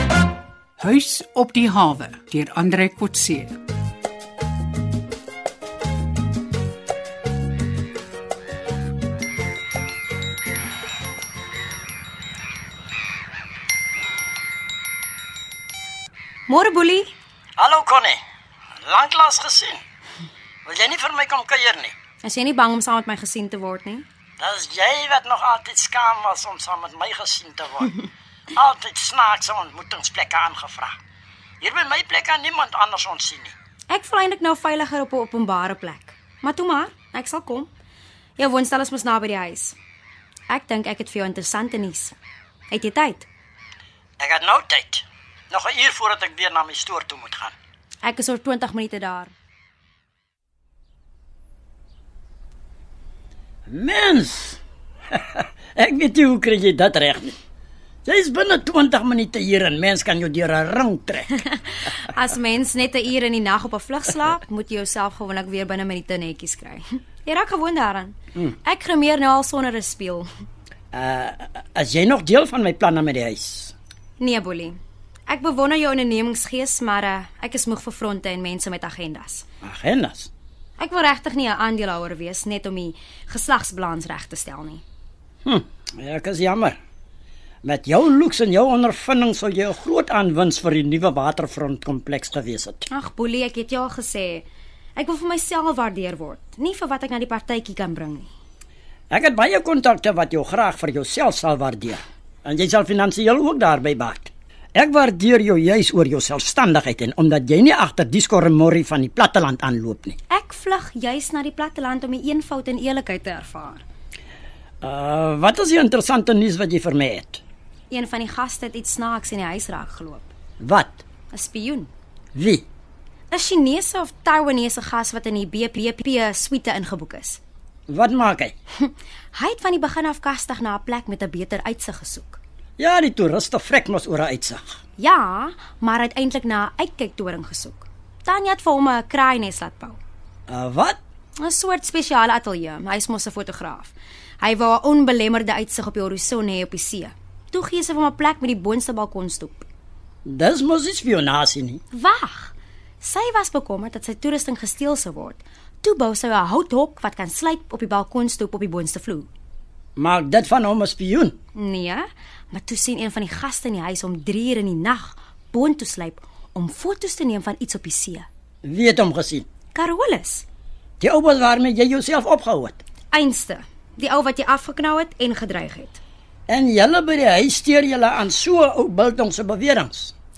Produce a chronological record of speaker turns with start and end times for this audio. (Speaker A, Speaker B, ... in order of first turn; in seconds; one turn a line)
Speaker A: 0.8-3.6
Speaker B: 16.5-17.1
Speaker C: 17.6-18.2
Speaker C: 18.8-19.8
Speaker C: 20.6-21.9
Speaker B: 22.2-24.1
Speaker C: 24.4-28.0
Speaker C: 28.6-31.0
Speaker C: 31.6-33.5
Speaker B: 33.9-37.7
Speaker B: 38.4-39.8
Speaker B: 40.5-42.1
Speaker B: 42.7-43.3
Speaker C: 44.2-47.5
Speaker B: 48.0-49.3
Speaker C: 53.7-54.6
Speaker C: 55.1-57.4
Speaker C: 58.0-61.3
Speaker B: 62.0-70.3
Speaker C: 70.9-73.7
Speaker B: 74.2-79.5
Speaker C: 79.6-80.3
Speaker B: 80.8-84.8
Speaker C: 85.4-86.8
Speaker C: 87.6-92.8
Speaker B: 92.9-98.3
Speaker C: 99.1-110.2
Speaker B: 110.3-113.8
Speaker C: 114.8-117.4
Speaker B: 117.9-120.3
Speaker C: 120.6-121.0
Speaker B: 121.3-121.9
Speaker C: 122.3-122.7
Speaker B: 123.3-127.4
Speaker C: 127.9-128.6
Speaker B: 128.8-132.4
Speaker C: 132.8-134.8
Speaker B: 135.0-140.0
Speaker C: 140.5-141.0
Speaker B: 141.4-149.7
Speaker C: 150.2-151.8
Speaker B: 151.9-159.3
Speaker C: 160.0-161.4
Speaker B: 161.6-168.3
Speaker C: 168.6-169.5
Speaker B: 169.7-170.4
Speaker C: 171.0-172.8
Speaker B: 173.1-176.0
Speaker C: 176.5-180.1